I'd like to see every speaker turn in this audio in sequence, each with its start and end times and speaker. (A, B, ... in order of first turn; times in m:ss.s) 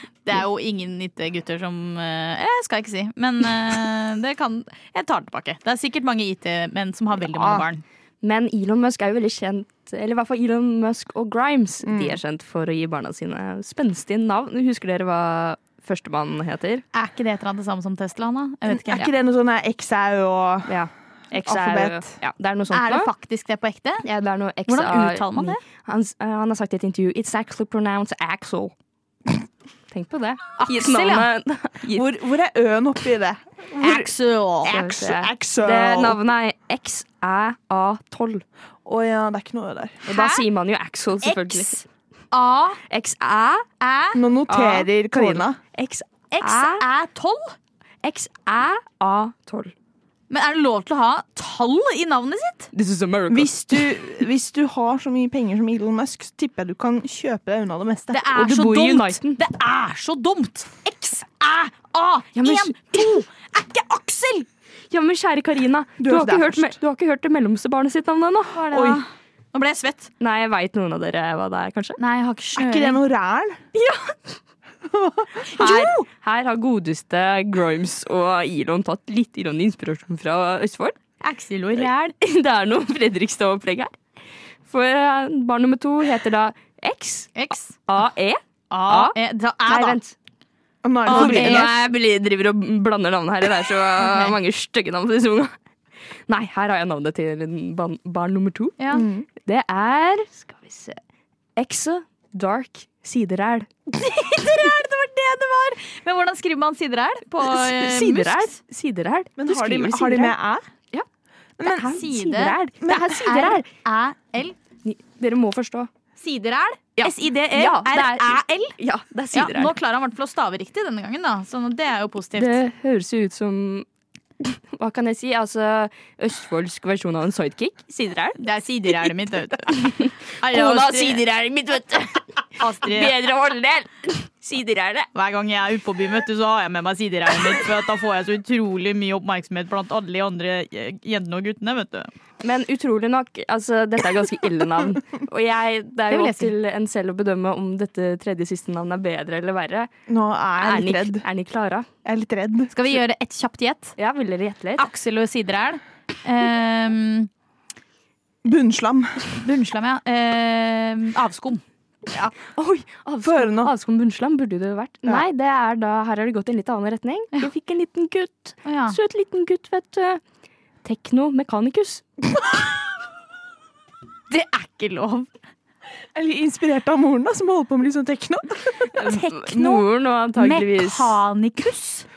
0:00.2-0:07.8 A
0:07.2-0:07.6 B
0:08.2-0:16.8 C
0:11.8-0:12.2 B
0:16.9-0:19.1 A
0:18.7-0:20.7 B
0:20.7-0:23.1 C
0:21.3-0:22.1 B
0:22.7-0:24.0 A
0:24.0-0:28.7 C
0:24.7-0:25.6 A
0:29.9-0:32.1 C
0:30.6-0:31.3 A
0:31.9-0:34.1 B
0:33.8-0:34.7 A
0:34.6-0:36.2 B
0:34.7-0:38.4 C
0:38.8-0:40.0 B
0:40.1-0:41.8 C
0:40.1-0:40.4 A
0:41.2-0:42.8 A
0:42.9-0:43.7 C
0:43.8-0:44.2 A
0:44.1-0:45.6 B
0:44.5-0:46.8 C
0:46.3-0:47.5 A
0:48.0-0:49.7 C
0:50.3-0:52.7 A
0:52.7-0:54.1 C
0:53.3-0:58.2 B
0:58.1-1:04.5 A
0:58.3-0:59.4 C
1:02.3-1:03.2 C
1:04.9-1:09.0 C
1:06.0-1:06.8 B
1:08.5-1:10.1 A
1:10.2-1:12.0 C
1:12.0-1:13.0 A
1:12.6-1:13.6 B
1:13.7-1:14.3 C
1:14.9-1:16.0 B
1:15.5-1:16.0 A
1:15.6-1:21.0 C
1:21.2-1:22.2 A
1:22.2-1:24.0 C
1:24.7-1:29.1 C
1:27.3-1:27.8 A
1:28.7-1:30.0 A
1:29.6-1:30.1 C
1:30.8-1:31.7 B
1:31.0-1:31.7 A
1:31.1-1:35.5 C
1:34.0-1:34.3 A
1:36.3-1:38.8 C
1:38.8-1:39.0 A
1:38.9-1:39.2 B
1:39.4-1:41.0 C
1:41.6-1:43.7 C
1:44.0-1:48.6 A
1:47.4-1:50.3 C
1:49.4-1:50.6 B
1:51.6-1:52.0 B
1:51.6-1:53.7 C
1:51.7-1:54.6 A
1:52.8-1:53.1 B
1:54.8-1:55.9 C
1:56.2-1:58.7 A
1:57.0-1:59.7 C
1:59.3-2:02.6 A
2:02.4-2:03.8 C
2:04.4-2:08.4 C
2:08.4-2:11.2 A
2:09.7-2:12.2 C
2:12.6-2:13.1 A
2:12.8-2:15.1 C
2:15.1-2:22.1 A
2:22.4-2:29.9 C
2:26.1-2:26.5 A
2:30.1-2:31.2 B
2:30.6-2:31.9 C
2:32.0-2:32.7 B
2:32.7-2:34.0 A
2:34.0-2:34.9 C
2:34.8-2:37.3 A
2:38.4-2:39.3 B
2:39.3-2:41.6 A
2:42.4-2:50.2 C
2:43.2-2:43.7 B
2:48.6-2:49.0 A
2:50.8-2:52.2 C
2:54.3-2:55.3 A
2:56.1-2:59.1 B
2:58.9-3:01.2 C
2:59.1-2:59.8 A
3:00.4-3:02.1 A